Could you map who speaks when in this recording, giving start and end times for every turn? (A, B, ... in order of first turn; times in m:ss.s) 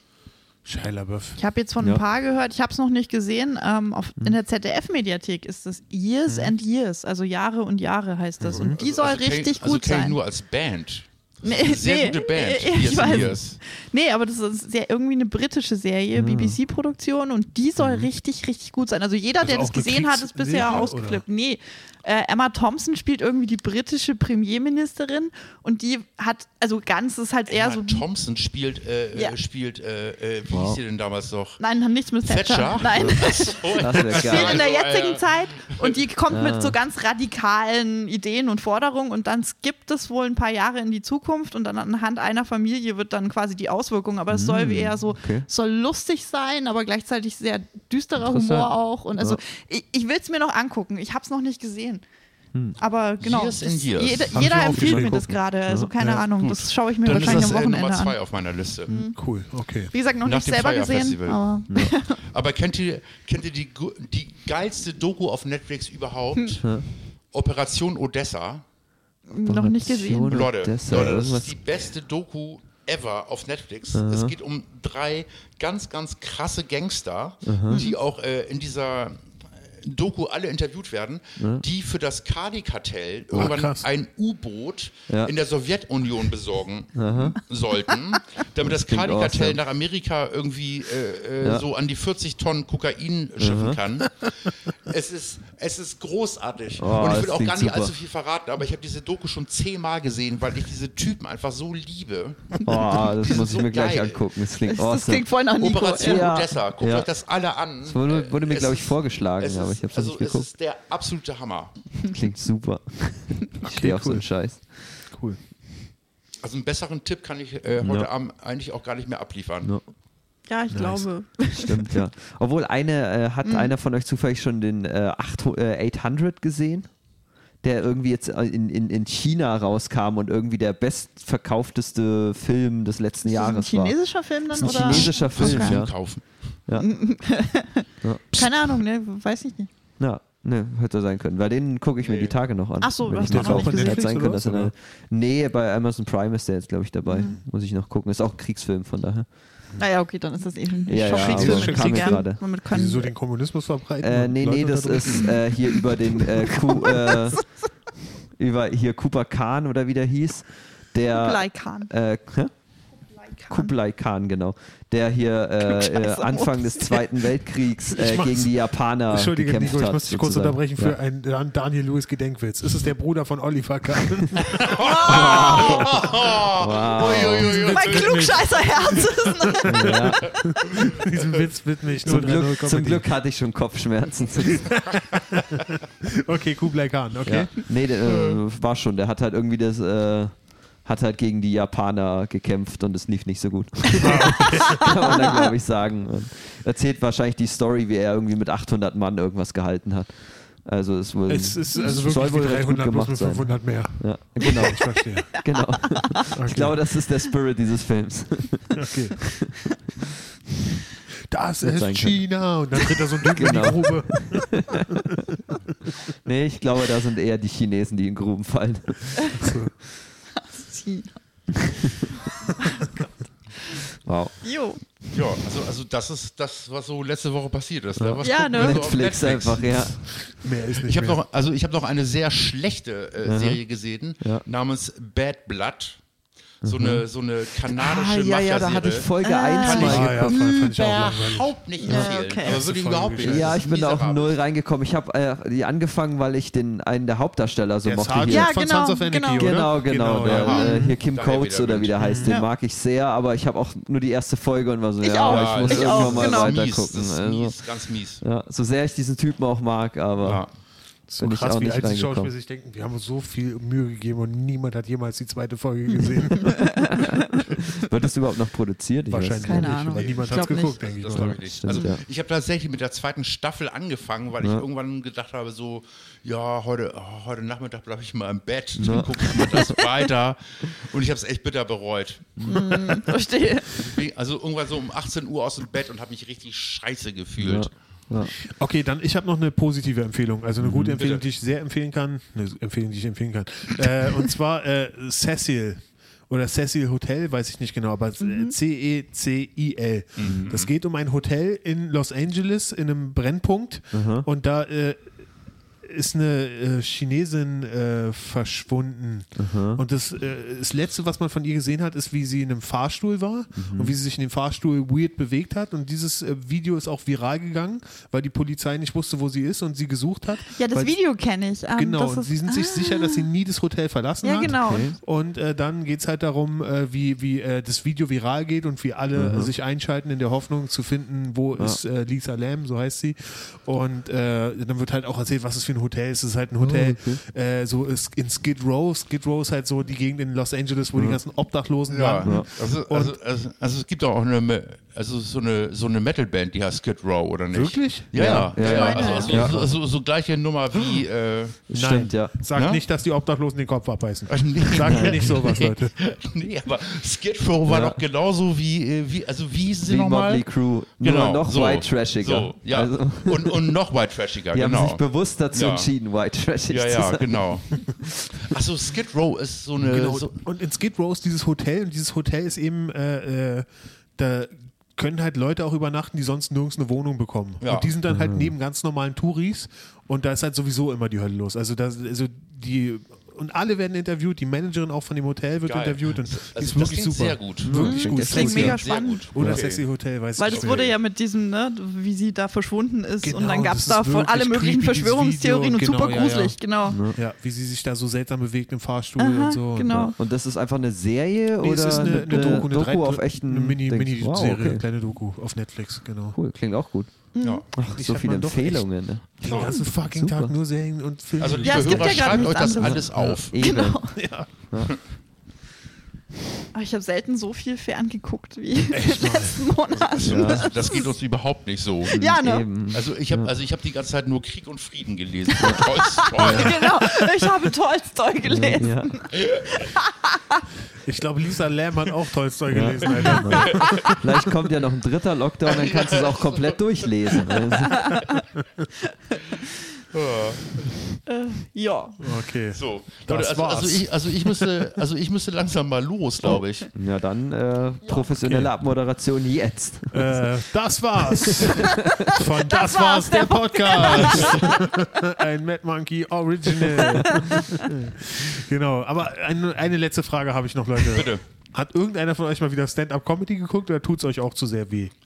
0:00.6-0:01.4 A
0:01.4-0:10.2 B
0:06.3-0:06.5 A
0:08.4-0:08.7 C
0:08.5-0:08.7 A
0:08.7-0:13.6 D
0:11.4-0:28.0 B
0:13.0-0:13.3 C
0:16.1-0:16.6 C
0:19.4-0:21.2 A
0:20.6-0:20.9 D
0:27.5-0:31.6 D
0:30.5-0:30.8 C
0:31.6-0:52.0 B
0:32.2-0:36.0 D
0:32.9-0:33.2 C
0:33.8-0:34.7 C
0:36.3-0:36.8 C
0:44.3-0:45.4 C
0:48.2-0:49.4 C
0:52.8-0:58.2 B
0:53.2-0:55.0 D
0:54.3-0:55.2 A
0:54.7-0:55.9 C
0:56.0-0:56.2 A
0:56.4-0:58.9 D
0:57.1-0:57.5 A
0:58.9-0:59.2 B
0:59.0-0:59.9 A
0:59.9-1:02.2 B
1:00.2-1:01.4 D
1:02.2-1:06.6 D
1:07.3-1:08.6 D
1:09.3-1:10.5 B
1:09.4-1:11.6 C
1:10.2-1:44.2 D
1:13.9-1:14.3 C
1:17.4-1:17.8 C
1:17.7-1:18.0 B
1:21.4-1:21.6 C
1:23.3-1:23.9 A
1:26.9-1:27.4 C
1:28.6-1:29.6 C
1:33.4-1:33.8 C
1:36.8-1:37.9 C
1:42.6-1:45.4 C
1:44.6-1:46.4 B
1:45.6-1:51.7 D
1:45.9-1:47.1 C
1:47.8-1:50.5 C
1:52.1-1:54.6 C
1:53.6-1:54.2 A
1:55.1-1:55.4 A
1:56.4-1:59.7 D
1:57.8-1:58.1 C
2:00.5-2:01.9 B
2:00.7-2:01.0 A
2:01.5-2:06.9 C
2:03.4-2:03.7 B
2:07.6-2:14.0 C
2:13.2-2:15.8 B
2:14.5-2:15.9 C
2:14.6-2:16.3 D
2:16.7-2:19.7 B
2:18.0-2:18.5 C
2:20.0-2:29.3 C
2:22.0-2:22.3 D
2:22.8-2:24.1 B
2:23.2-2:24.7 A
2:27.0-2:27.4 B
2:29.8-2:33.1 B
2:30.9-2:32.4 C
2:31.1-2:35.4 A
2:34.0-2:37.4 C
2:36.2-2:37.4 B
2:38.4-2:42.5 C
2:41.1-2:41.9 B
2:43.2-2:43.7 B
2:43.5-2:51.0 C
2:45.6-2:47.2 B
2:47.8-2:48.6 A
2:49.1-2:54.9 A
2:54.6-2:58.5 D
2:54.8-2:55.8 B
2:55.0-2:57.5 C
2:57.3-3:03.1 A
2:57.5-3:00.1 B
2:59.6-3:00.9 C
3:02.0-3:04.8 C
3:04.4-3:07.5 A
3:07.2-3:29.7 C
3:14.0-3:15.0 A
3:14.7-3:15.5 B
3:21.3-3:25.3 A
3:24.4-3:26.3 B
3:26.3-3:26.8 A
3:28.7-3:29.2 A
3:31.3-3:35.2 A
3:31.6-3:32.2 C
3:33.3-3:35.0 C
3:36.2-3:39.5 C
3:39.3-3:39.7 A
3:40.4-3:41.2 B
3:41.7-3:42.1 C
3:42.4-3:43.0 B
3:44.0-3:44.3 C
3:44.4-3:44.8 B
3:45.1-3:50.0 D
3:48.0-3:50.0 C
3:48.2-3:48.9 B
3:50.2-3:51.2 A
3:50.8-3:56.0 D
3:53.2-3:53.6 C
3:56.6-4:04.4 D
3:56.6-3:57.0 C
3:57.6-4:00.4 C
3:59.2-4:00.7 B
3:59.7-4:01.5 A
4:01.8-4:02.6 B
4:01.9-4:02.1 C
4:02.4-4:03.6 A
4:03.2-4:08.5 C
4:07.8-4:11.0 A
4:08.3-4:09.6 B
4:09.4-4:17.6 C
4:10.2-4:12.2 D
4:12.0-4:12.4 A
4:15.0-4:16.6 B
4:15.2-4:18.2 D
4:18.2-4:20.4 C
4:20.2-4:20.5 D
4:21.1-4:26.7 A
4:21.2-4:22.3 C
4:26.3-4:30.0 C
4:26.4-4:27.4 B
4:29.1-4:31.4 A
4:29.4-4:30.8 B
4:29.9-4:43.0 D
4:31.1-4:32.0 C
4:31.7-4:31.9 B
4:34.4-4:34.6 C
4:38.8-4:39.8 C
4:39.2-4:39.8 B
4:42.4-4:42.8 C
4:42.4-4:43.8 B
4:43.7-4:47.7 D
4:47.4-4:48.3 C
4:48.4-5:05.2 A
4:50.6-4:51.0 C
4:51.0-4:51.2 D
4:58.2-4:58.5 B
5:00.2-5:00.7 D
5:03.9-5:04.3 C
5:05.8-5:20.9 A
5:09.4-5:09.8 C
5:13.5-5:14.0 C
5:20.4-5:23.3 B
5:21.7-5:43.1 A
5:24.2-5:25.0 B
5:24.4-5:25.0 C
5:29.1-5:29.5 C
5:36.6-5:37.2 C
5:40.9-5:41.2 C
5:41.9-5:51.6 D
5:42.2-5:42.5 C
5:47.5-5:49.7 A
5:48.1-5:49.7 C
5:48.6-5:49.4 B
5:51.7-5:52.3 C
5:51.7-5:55.9 A
5:52.5-5:52.8 D
5:54.3-6:00.4 D
5:54.8-5:55.2 C
5:57.7-5:58.0 C
5:59.8-6:03.8 C
6:01.0-6:05.0 D
6:04.5-6:08.3 C
6:05.5-6:05.9 D
6:06.7-6:10.3 D
6:09.8-6:30.9 A
6:17.6-6:17.9 D
6:18.1-6:18.5 C
6:25.6-6:29.8 D
6:27.6-6:28.8 C
6:27.7-6:29.3 B
6:30.4-6:37.0 B
6:30.4-6:30.9 D
6:33.2-6:36.6 A
6:36.9-6:37.2 C
6:37.1-6:40.1 A
6:39.2-6:40.2 B
6:39.9-6:44.8 C
6:41.6-6:46.4 A
6:46.3-6:47.1 C
6:47.3-6:47.6 B
6:47.4-6:47.6 D
6:47.7-6:50.5 C
6:47.8-6:52.5 A
6:49.4-6:49.7 D
6:49.5-6:49.9 B
6:51.4-6:53.7 D
6:51.6-6:54.1 B
6:52.8-6:54.1 C
6:54.1-6:54.5 A
6:56.7-7:01.1 B
6:58.9-6:59.7 A
6:59.9-7:02.2 D
7:00.2-7:00.7 C
7:02.1-7:02.7 B
7:02.1-7:03.5 C
7:02.9-7:06.8 D
7:05.5-7:10.6 B
7:06.4-7:07.4 A
7:08.5-7:09.2 C
7:09.4-7:09.7 D
7:11.0-7:14.2 A
7:12.7-7:18.2 C
7:13.5-7:14.2 D
7:15.7-7:17.5 D
7:17.8-7:18.3 B
7:19.3-7:19.6 B
7:20.1-7:21.0 D
7:21.3-7:22.2 B
7:22.2-7:24.9 A
7:22.7-7:26.9 D
7:26.4-7:30.6 C
7:28.4-7:28.7 A
7:30.1-7:45.1 A
7:31.2-7:32.3 C
7:31.8-7:34.9 B
7:34.3-7:34.6 D
7:37.0-7:37.4 C
7:37.3-7:37.8 B
7:41.0-7:41.4 D